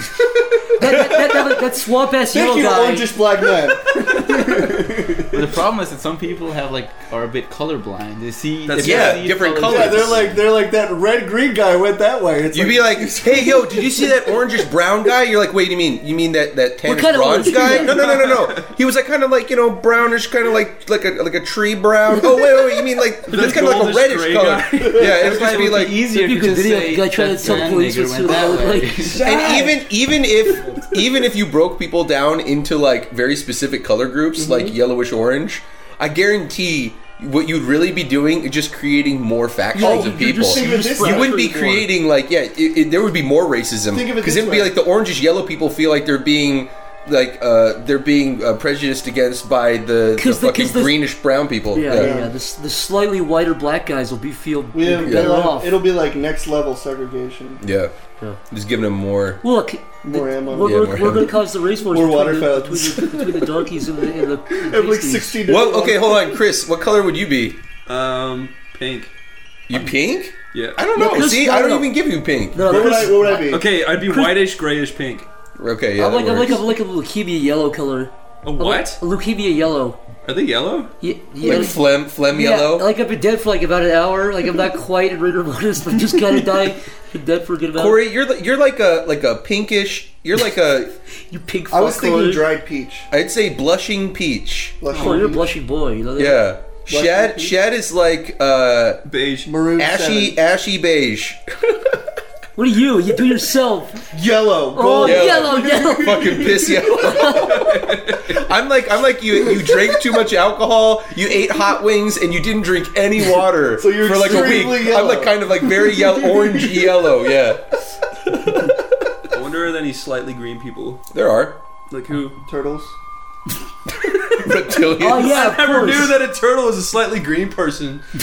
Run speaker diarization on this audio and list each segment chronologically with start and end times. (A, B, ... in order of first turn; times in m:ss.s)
0:00.6-0:01.6 A
0:00.7-0:03.1 B
0:02.3-0:05.5 A
0:05.3-0:10.4 C
0:08.7-0:09.2 D
0:08.8-0:10.4 E
0:09.6-0:14.6 A
0:12.5-0:26.0 E
0:16.8-0:18.0 B
0:17.5-0:18.7 D
0:23.3-0:25.3 D
0:25.1-0:29.3 C
0:26.1-0:29.2 B
0:29.0-0:29.8 D
0:29.2-0:52.1 E
0:34.4-0:34.8 A
0:39.7-0:41.8 B
0:39.8-0:41.8 A
0:43.9-0:44.8 A
0:50.2-0:51.0 B
0:51.7-0:55.8 B
0:51.9-0:52.3 A
0:54.7-0:57.6 A
0:55.0-0:55.4 E
0:57.6-0:57.9 E
0:58.5-0:59.4 E
0:59.4-1:05.4 B
1:00.0-1:03.2 A
1:00.6-1:01.4 E
1:04.5-1:06.4 A
1:05.5-1:07.6 E
1:07.9-1:09.1 D
1:09.7-1:12.8 E
1:10.5-1:10.8 D
1:10.9-1:12.0 B
1:12.5-1:14.4 B
1:12.6-1:13.7 A
1:12.8-1:15.3 D
1:15.6-1:16.6 E
1:16.0-1:20.0 B
1:18.4-1:19.0 D
1:20.2-1:20.9 D
1:21.0-1:28.0 B
1:21.4-1:22.9 E
1:27.7-1:30.9 E
1:31.3-1:32.5 B
1:31.7-1:33.1 A
1:33.1-1:34.8 E
1:34.8-1:35.5 A
1:34.9-1:35.3 D
1:34.9-1:36.5 B
1:36.2-1:39.0 E
1:36.9-1:37.6 A
1:39.1-1:39.5 D
1:39.5-1:40.4 A
1:39.8-1:41.8 E
1:42.6-1:44.1 B
1:44.1-1:46.8 A
1:44.7-1:47.3 B
1:45.0-1:57.6 E
1:47.2-1:48.4 D
1:53.7-1:57.0 A
1:58.3-1:58.8 E
1:59.3-2:01.0 D
2:01.1-2:01.6 E
2:01.9-2:02.4 D
2:02.4-2:03.0 A
2:03.9-2:05.4 E
2:05.0-2:06.2 B
2:05.0-2:08.1 D